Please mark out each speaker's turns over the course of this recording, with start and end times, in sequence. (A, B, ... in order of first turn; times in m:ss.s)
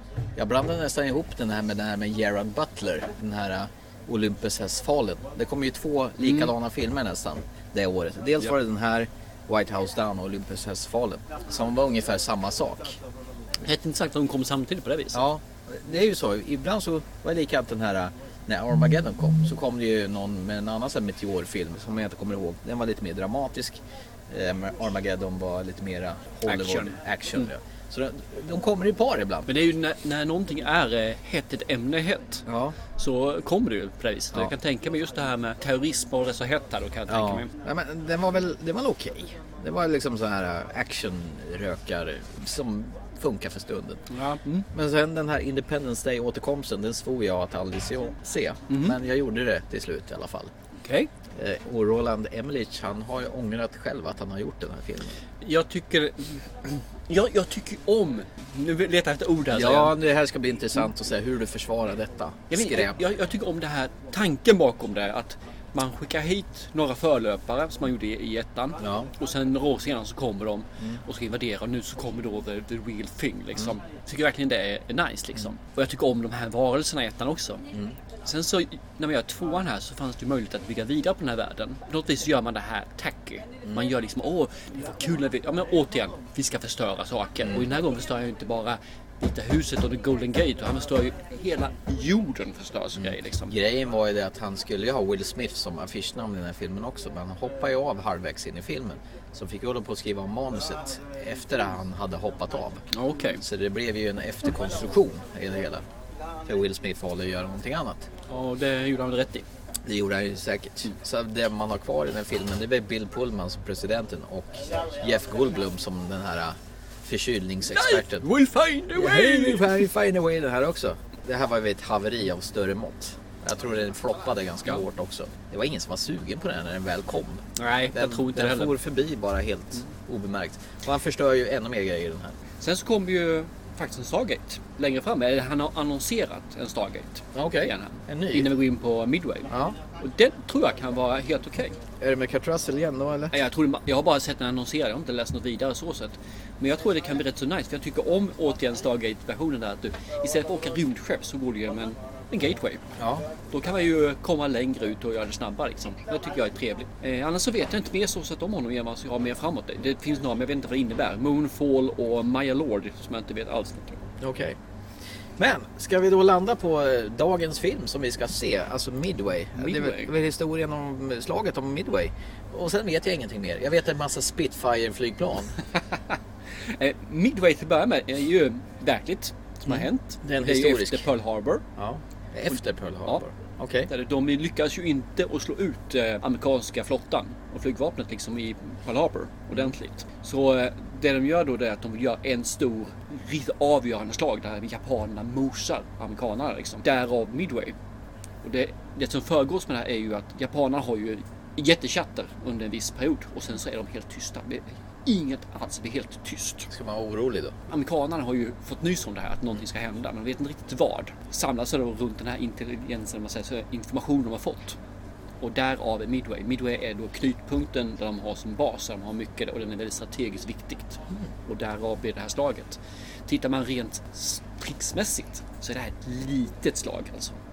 0:00.4-0:13.0 A
0:13.6-0:15.2 B
0:15.1-0:29.5 A
0:26.5-0:27.0 B
0:29.5-0:37.5 B
0:32.5-0:32.8 A
0:37.1-0:44.0 A
0:44.1-0:44.7 B
0:44.7-0:50.5 A
0:48.7-0:49.0 B
0:50.8-0:51.1 B
0:51.4-0:55.2 A
0:55.4-1:00.0 B
0:59.5-1:03.0 A
1:02.5-1:17.7 B
1:08.8-1:09.1 A
1:18.2-1:33.5 B
1:33.5-1:42.8 A
1:42.9-1:43.4 B
1:43.4-1:45.9 A
1:46.4-1:48.1 A
1:48.3-1:49.5 B
1:49.8-1:58.3 A
1:57.7-1:59.8 B
1:58.9-2:12.4 A
2:07.6-2:08.8 B
2:12.6-2:21.8 B
2:17.3-2:18.5 A
2:19.5-2:19.8 A
2:22.0-2:23.4 A
2:23.3-2:32.8 B
2:33.0-2:33.3 A
2:33.5-2:44.0 B
2:44.2-2:44.6 A
2:45.4-2:55.6 A
2:49.6-2:50.1 B
2:56.7-3:01.7 B
2:59.7-3:01.1 A
3:01.8-3:03.9 A
3:03.9-3:17.8 B
3:18.4-3:26.7 B
3:26.7-3:27.6 A
3:27.7-3:34.8 B
3:35.4-3:47.4 B